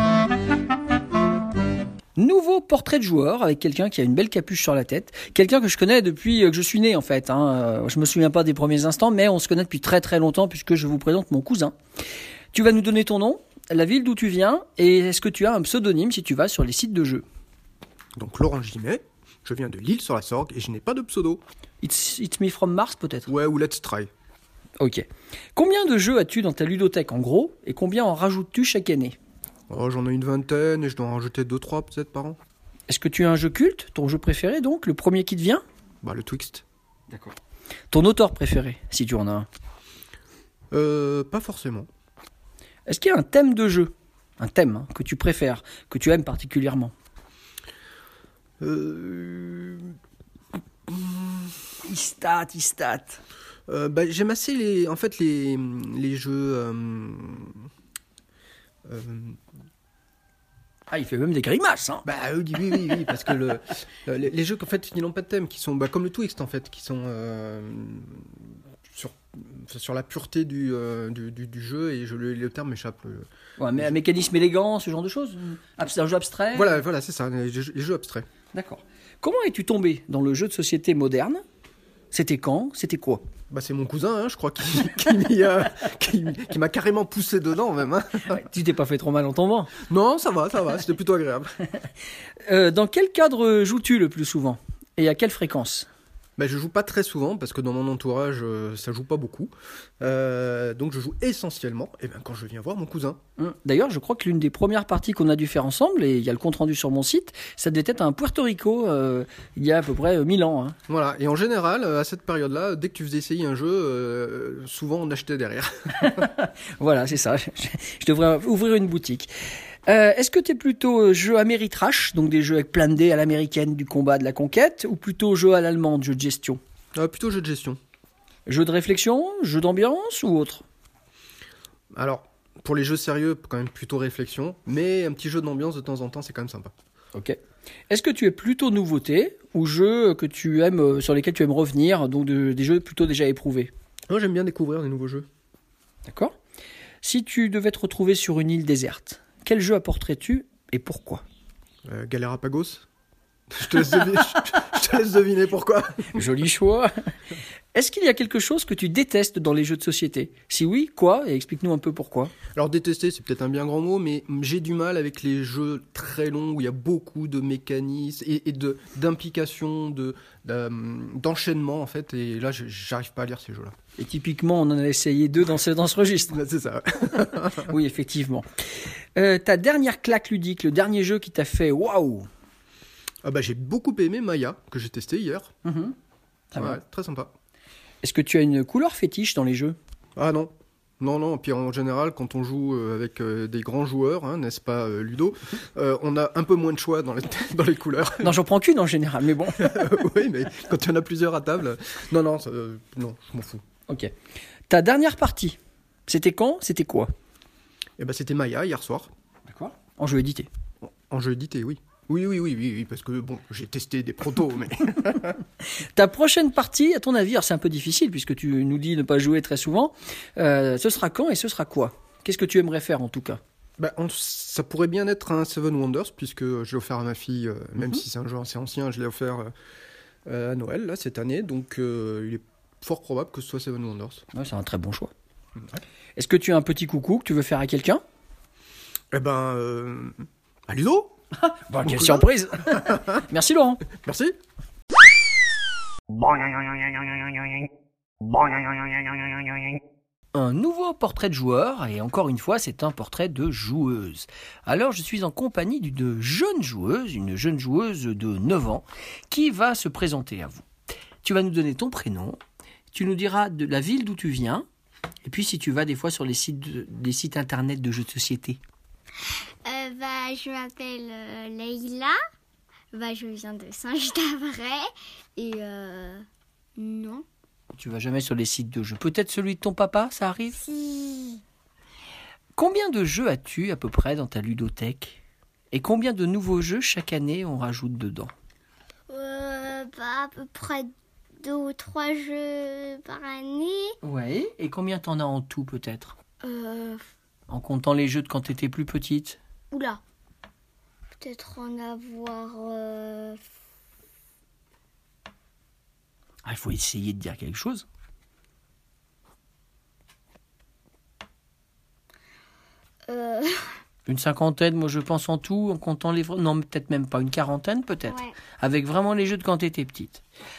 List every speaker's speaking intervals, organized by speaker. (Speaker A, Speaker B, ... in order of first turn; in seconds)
Speaker A: 2.2-11.8, 12.5-17.2, 21.8-23.3, 24.8-29.2, 32.9-35.6, 37.1-37.4, 37.9-39.5, 42.9-46.9, 51.8-53.2, 60.9-62.1, 73.6-76.8, 78.5-81.4, 82.1-83.2, 88.3-89.8, 92.5-95.9, 103.4-110.8, 116.0-119.3, 119.9-126.6, 128.5-130.6, 137.9-143.7, 146.1-146.4, 147.0-151.2, 156.1-157.1, 157.7-162.3, 174.0-176.4, 177.4-178.5, 179.2-182.3, 185.7-186.0, 186.5-186.8, 188.0-189.8, 198.2-199.8, 204.7-207.1, 209.5-210.5, 215.8-223.4, 234.3-235.1, 236.2-238.0, 241.4-243.8, 250.3-260.7, 261.2-262.4, 262.9-264.7, 265.2-268.6, 277.7-280.6, 282.6-288.3, 294.0-296.2, 297.5-299.4, 306.4-307.9, 314.1-320.2
Speaker B: 18.2-21.4, 23.3-24.1, 29.7-32.4, 36.0-36.6, 40.7-41.9, 48.6-50.0, 50.9-51.5, 53.7-57.7, 58.9-59.4, 62.0-74.0, 76.5-78.3, 83.5-88.4, 89.8-91.7, 96.4-103.2, 110.9-116.1, 127.0-127.8, 131.9-136.7, 144.1-145.3, 151.8-152.8, 153.5-156.3, 162.5-173.8, 176.3-177.7, 183.2-185.5, 186.6-187.3, 190.2-198.3, 199.6-203.6, 208.0-209.1, 210.8-215.4, 223.8-229.5, 230.3-234.2, 239.1-241.2, 241.8-242.2, 244.0-244.4
Speaker C: 269.6-272.1, 272.9-276.3, 276.8-277.2, 280.6-281.4, 289.1-294.0, 296.4-297.0, 299.7-300.0, 301.2-303.4, 313.1-313.8, 318.1-318.3